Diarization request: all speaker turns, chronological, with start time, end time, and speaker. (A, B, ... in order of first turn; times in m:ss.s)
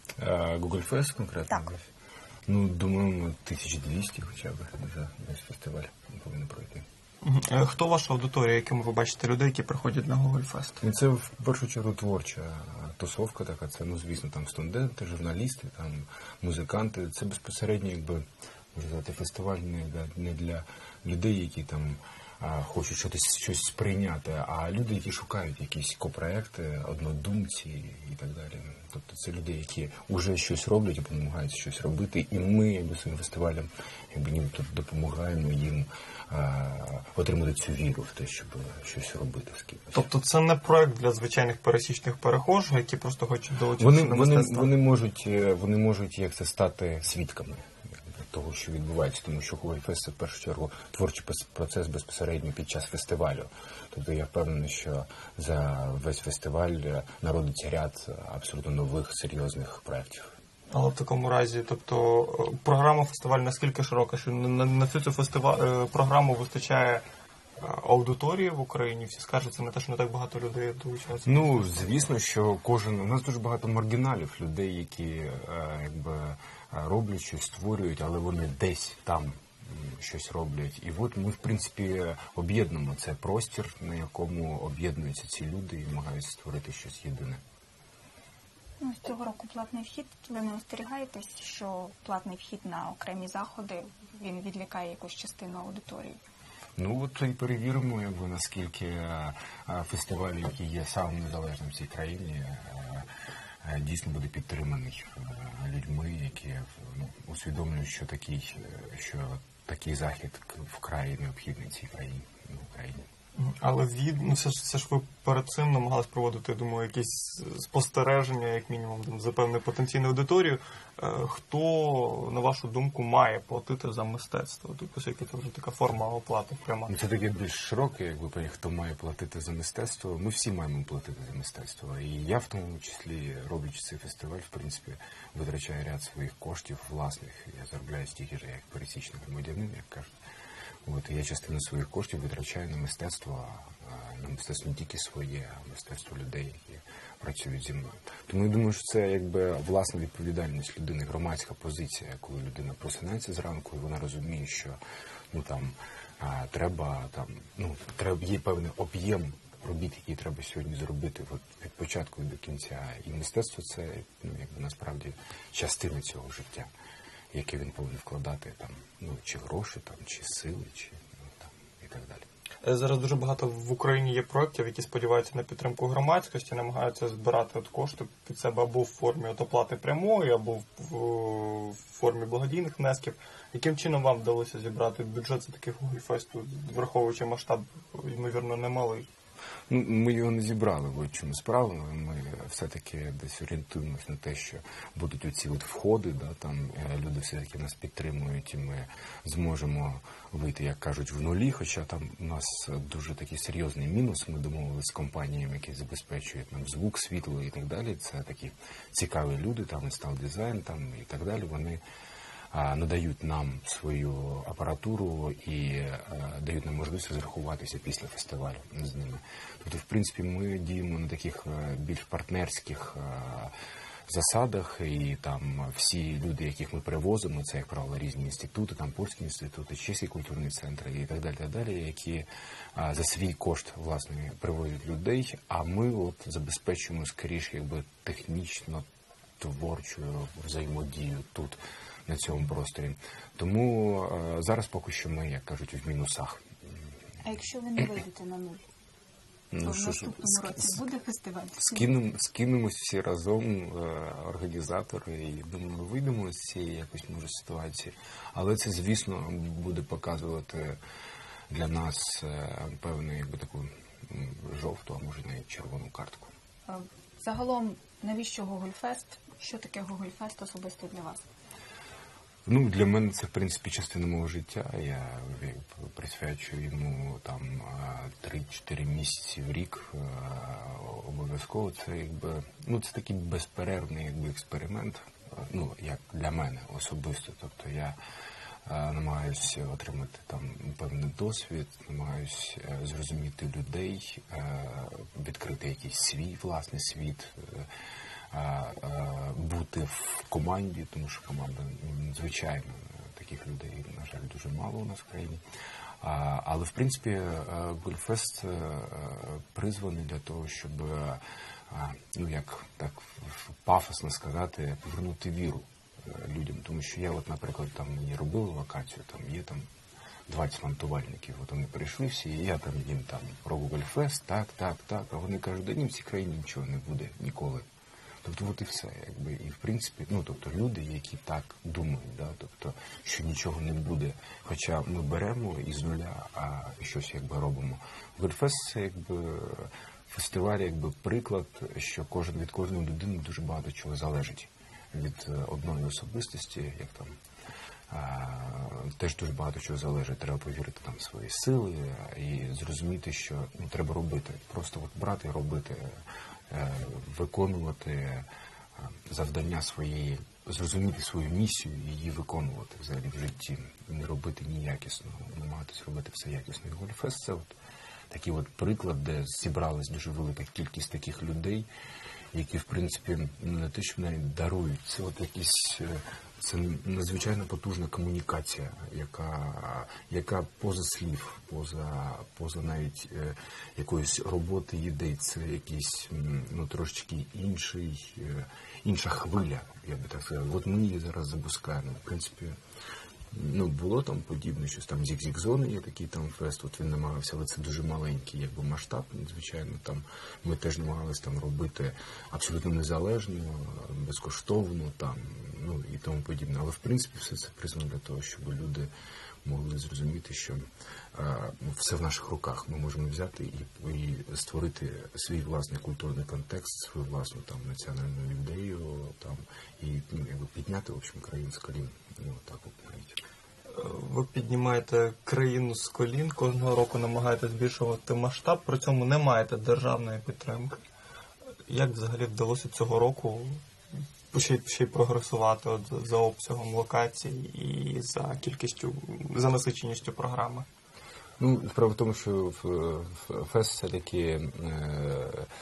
0:00.2-0:01.9 A
0:02.5-0:06.8 A
0:07.2-0:10.8 B
0:10.8-0:40.0 A
0:39.9-0:44.7 B
0:43.8-0:47.7 A
0:48.2-1:00.3 A
1:00.7-1:07.0 B
1:07.6-1:12.0 B
1:11.2-1:27.4 A
1:28.8-1:36.2 C
1:36.8-1:43.1 A
1:43.6-1:53.0 A
1:53.4-2:06.9 B
2:06.9-2:20.1 A
2:20.8-2:34.8 A
2:35.3-2:46.7 A
2:47.3-2:52.2 A
2:52.6-3:09.1 B
3:09.7-3:31.8 A
3:32.5-3:43.5 A
3:44.1-3:58.8 A
3:59.4-4:06.4 A
4:07.2-4:08.6 C
4:09.5-4:10.8 A
4:09.6-4:11.9 C
4:11.6-4:20.8 A
4:21.5-4:26.3 A
4:26.7-4:31.2 C
4:32.4-4:48.0 A
4:48.6-4:57.7 A
4:58.3-5:05.4 A
5:06.0-5:19.7 A
5:20.3-5:27.6 A
5:28.2-5:47.1 A
5:47.9-5:58.3 A
5:58.8-6:07.5 A
6:08.1-6:11.7 A
6:12.3-6:32.6 A
6:33.3-6:48.9 A
6:49.4-6:50.6 A
6:51.1-7:03.2 A
7:03.7-7:10.8 B
7:11.7-7:13.6 B
7:14.3-7:20.6 B
7:21.4-7:25.5 A